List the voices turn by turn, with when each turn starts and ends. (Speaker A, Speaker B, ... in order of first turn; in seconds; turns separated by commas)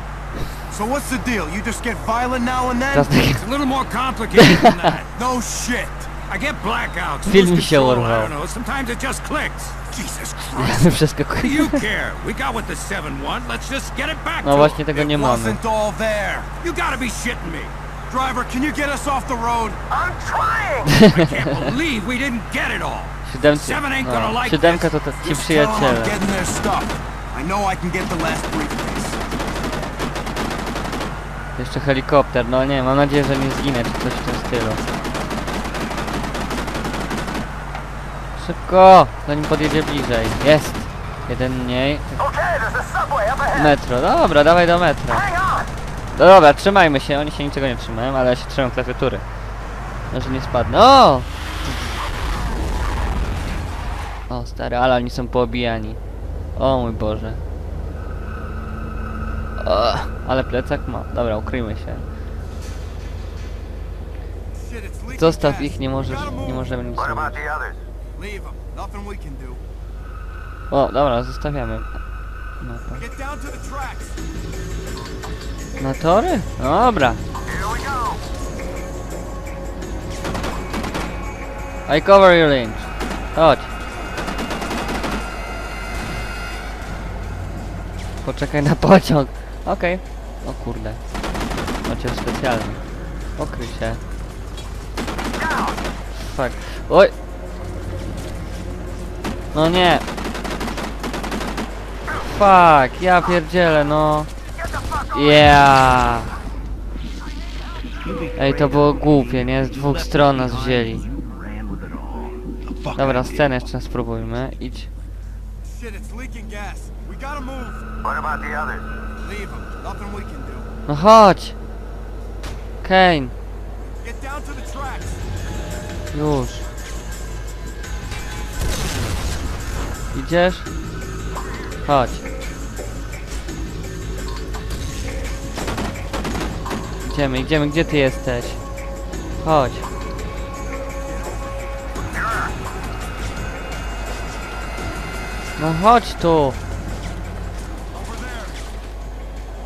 Speaker A: 0.7-3.1, Speaker B: 2.9-3.5, Speaker C: 3.3-5.1, Speaker B: 4.4-4.7, Speaker A: 5.1-6.1, Speaker C: 6.2-9.9, Speaker B: 7.2-8.3, Speaker A: 9.9-10.9, Speaker B: 10.6-11.8, Speaker C: 11.4-14.7, Speaker B: 14.4-15.6, Speaker A: 14.5-16.5, Speaker C: 16.6-17.7, Speaker A: 18.1-19.8, Speaker D: 19.9-21.0, Speaker B: 20.9-21.6, Speaker C: 21.0-24.9, Speaker B: 23.2-26.2, Speaker A: 25.2-29.2, Speaker B: 31.6-34.8, Speaker B: 38.4-42.2, Speaker D: 42.2-43.8, Speaker B: 43.5-45.3, Speaker D: 45.2-45.7, Speaker B: 46.1-49.2, Speaker B: 50.1-51.3, Speaker B: 54.3-56.0, Speaker B: 56.6-57.4, Speaker B: 59.6-62.0, Speaker A: 64.5-66.7, Speaker B: 65.1-67.4, Speaker D: 67.0-67.8, Speaker A: 68.2-69.6, Speaker B: 70.7-71.9, Speaker B: 72.6-73.0, Speaker A: 73.0-74.2, Speaker B: 75.8-77.2, Speaker D: 77.5-78.2, Speaker B: 81.9-83.7, Speaker B: 88.2-91.0, Speaker B: 91.8-92.8, Speaker B: 93.4-94.0, Speaker D: 95.4-95.7, Speaker B: 96.1-97.1, Speaker B: 99.5-100.0, Speaker B: 102.1-104.3, Speaker B: 105.1-106.4, Speaker B: 108.3-111.1, Speaker B: 112.9-114.9, Speaker A: 115.6-117.9, Speaker D: 118.0-118.8, Speaker A: 119.2-120.7, Speaker B: 120.9-121.6, Speaker B: 122.8-123.3, Speaker A: 123.9-125.2, Speaker B: 126.1-126.7, Speaker B: 130.1-130.7, Speaker B: 131.8-132.2, Speaker B: 137.0-138.6, Speaker B: 139.4-139.9, Speaker A: 141.0-141.6, Speaker D: 142.2-142.5, Speaker B: 145.6-146.6, Speaker A: 147.9-148.6